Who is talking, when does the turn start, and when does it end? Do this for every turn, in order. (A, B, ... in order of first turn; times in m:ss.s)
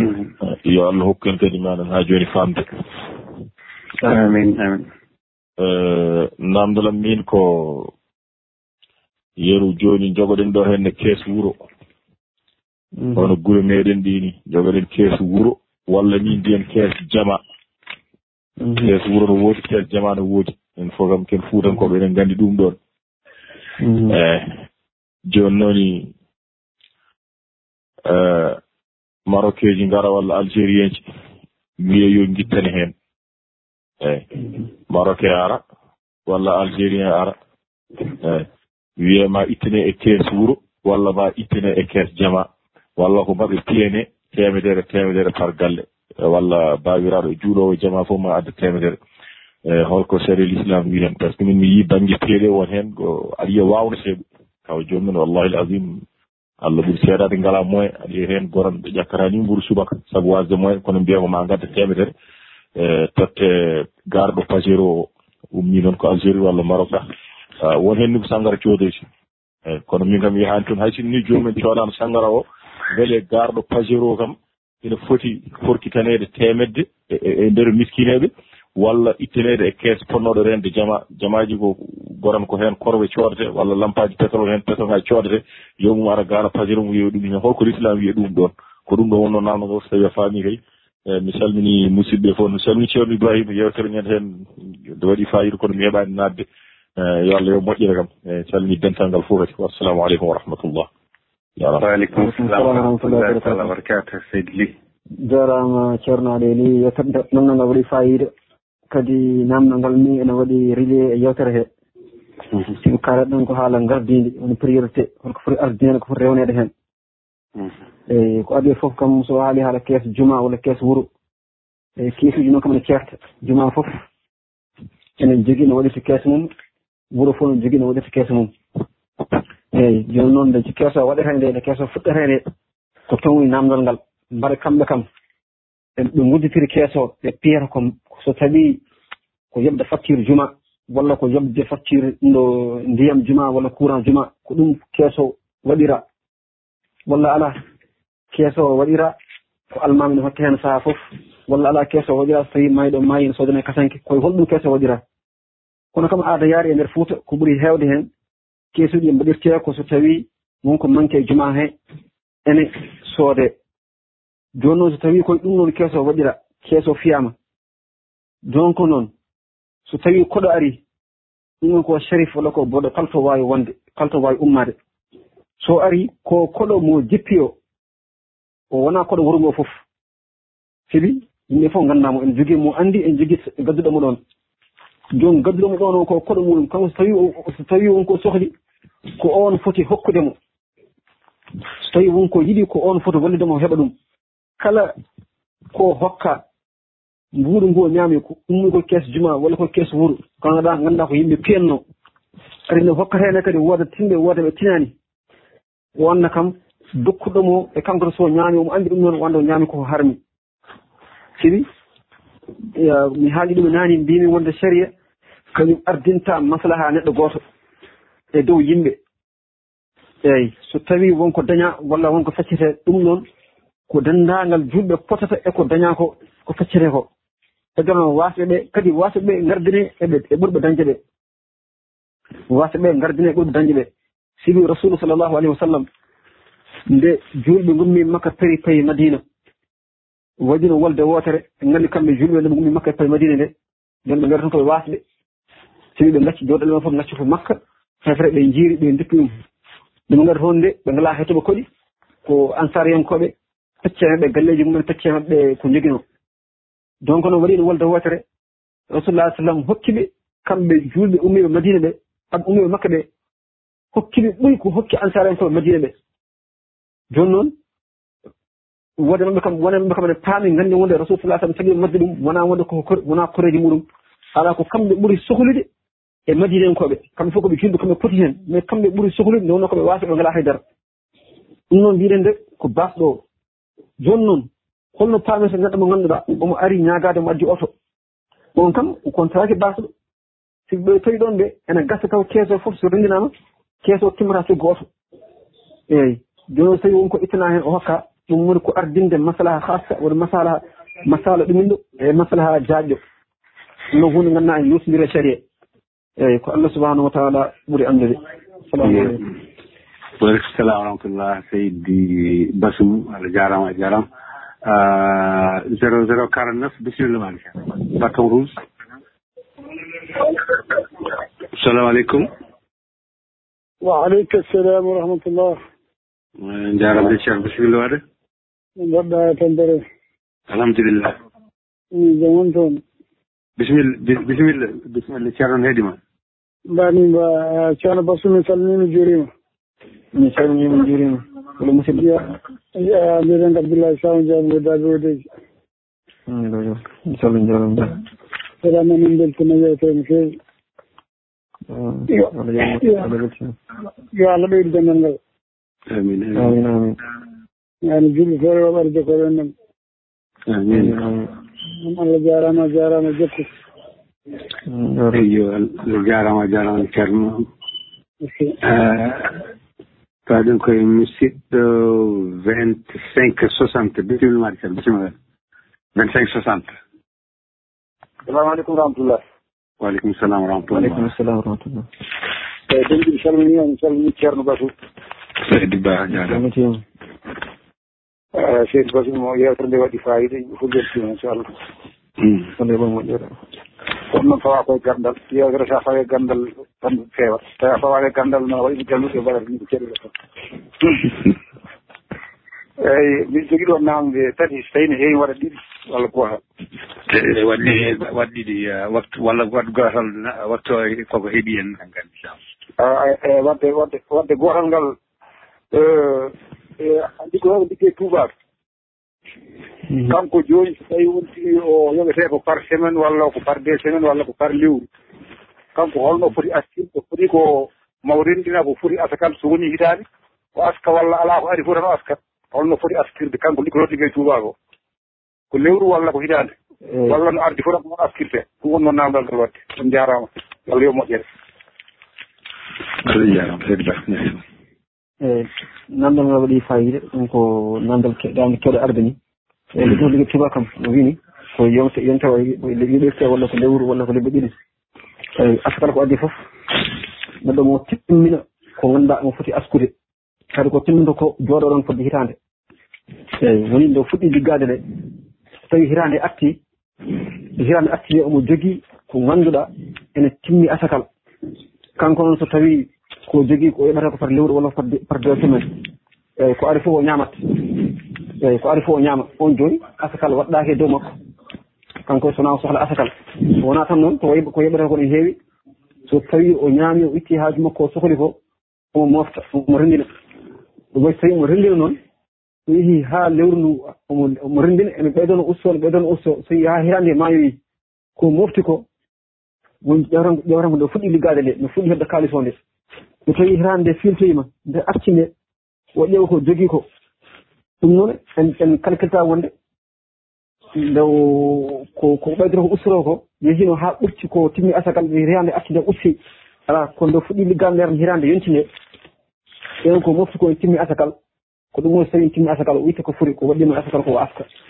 0:00.4-0:02.7 A
0:04.0-0:04.9 B
0:05.6-0:07.9 A
0:09.4-0:11.6 A
0:13.0-0:13.3 C
0:13.2-0:17.4 A
0:18.6-0:18.9 C
0:18.8-0:22.8 A
0:23.8-0:24.2 C
0:24.1-0:24.6 A
0:25.3-0:26.1 A
0:28.1-0:28.6 A
0:29.3-0:31.0 A
0:31.8-0:32.9 A
0:34.0-0:34.4 A
0:34.9-0:35.6 A
0:36.3-0:37.4 A
0:38.1-0:38.5 A
0:39.0-0:49.0 A
0:49.7-0:56.0 A
0:56.6-1:02.1 A
1:02.8-1:07.1 A
1:07.6-1:09.1 A
1:09.7-1:36.4 A
1:37.0-1:40.9 A
1:41.6-1:41.8 A
1:41.8-1:44.7 B
1:42.2-1:43.7 C
1:45.2-1:48.3 C
1:48.9-1:51.7 C
1:52.8-1:56.7 C
1:58.1-2:01.1 C
2:02.0-2:04.0 C
2:05.2-2:06.5 C
2:07.1-2:08.5 C
2:09.7-2:12.4 C
2:13.1-2:15.1 C
2:16.0-2:18.8 C
2:19.5-2:26.0 C
2:27.1-2:27.6 C
2:28.3-2:29.2 C
2:29.7-2:35.0 C
2:35.9-2:38.1 C
2:38.7-2:41.7 C
2:42.5-2:43.6 C
2:44.6-2:47.4 C
2:48.4-2:49.1 C
2:49.9-2:50.8 C
2:51.6-2:54.8 C
2:55.6-2:57.6 C
2:58.7-2:59.8 C
3:00.9-3:04.2 C
3:05.1-3:08.5 C
3:09.2-3:10.4 C
3:11.8-3:13.9 C
3:14.6-3:14.9 C
3:15.7-3:16.4 C
3:17.3-3:21.8 C
3:22.7-3:24.9 C
3:26.0-3:30.2 C
3:31.4-3:31.7 C
3:32.7-3:34.9 C
3:35.5-3:37.4 C
3:38.3-3:39.0 C
3:40.2-3:43.2 C
3:43.9-3:47.1 C
3:47.8-3:51.0 C
3:52.5-3:55.9 C
3:56.9-3:59.2 C
4:00.4-4:03.5 C
4:04.1-4:05.0 C
4:06.0-4:09.4 C
4:10.1-4:11.7 C
4:12.3-4:16.0 C
4:17.0-4:18.2 C
4:18.9-4:23.1 C
4:23.9-4:26.0 C
4:27.1-4:27.5 C
4:29.0-4:35.7 C
4:36.3-4:40.6 C
4:41.7-4:43.2 C
4:44.0-4:47.7 C
4:48.6-4:49.9 C
4:50.7-4:53.3 C
4:53.8-4:54.9 C
4:55.9-5:03.0 C
5:03.9-5:05.4 C
5:06.2-5:09.2 C
5:08.8-5:09.2 B
5:10.2-5:14.0 B
5:14.6-5:18.6 B
5:21.5-5:22.3 B
5:23.8-5:25.6 D
5:26.4-5:28.0 B
5:28.8-5:29.8 D
5:30.5-5:31.2 B
5:31.9-5:32.8 D
5:33.6-5:36.0 B
5:36.7-5:39.3 D
5:40.2-5:42.3 C
5:42.8-5:45.3 D
5:46.3-5:48.0 C
5:48.6-5:50.4 D
5:51.7-5:53.6 C
5:54.1-5:55.2 D
5:55.9-5:56.6 B
5:56.4-5:57.0 C
5:57.8-5:59.5 D
6:00.5-6:01.0 B
6:00.7-6:01.3 C
6:01.8-6:03.5 D
6:04.7-6:05.2 C
6:05.1-6:07.5 B
6:08.2-6:08.6 D
6:08.6-6:09.4 B
6:10.3-6:15.2 B
6:16.0-6:16.8 B
6:18.3-6:19.2 E
6:19.8-6:21.1 B
6:20.7-6:21.9 C
6:22.7-6:24.7 E
6:25.4-6:26.4 B
6:26.1-6:26.8 C
6:28.4-6:31.5 E
6:32.6-6:33.3 C
6:34.1-6:40.1 E
6:42.8-6:46.4 E
6:47.1-6:52.4 B
6:52.8-6:55.0 E
6:55.7-6:58.3 E
7:00.1-7:04.8 E
7:05.8-7:10.0 E
7:10.6-7:14.6 E
7:15.5-7:16.5 E
7:16.9-7:17.2 C
7:17.1-7:21.2 E
7:23.0-7:24.4 B
7:25.2-7:29.2 C
7:29.7-7:34.6 C
7:35.4-7:36.4 C
7:37.4-7:39.9 C
7:40.5-7:42.4 C
7:43.4-7:44.8 C
7:45.7-7:46.6 C
7:47.6-7:51.1 C
7:52.0-7:55.7 C
7:56.4-7:57.7 C
7:58.4-8:01.2 C
8:02.1-8:05.4 C
8:06.1-8:08.4 C
8:08.9-8:10.1 C
8:10.9-8:12.0 C
8:12.7-8:17.6 C
8:18.2-8:18.8 C
8:19.8-8:22.6 C
8:23.3-8:25.3 C
8:26.0-8:26.8 C
8:27.8-8:29.5 C
8:30.8-8:38.7 C
8:39.8-8:41.2 C
8:41.7-8:44.5 C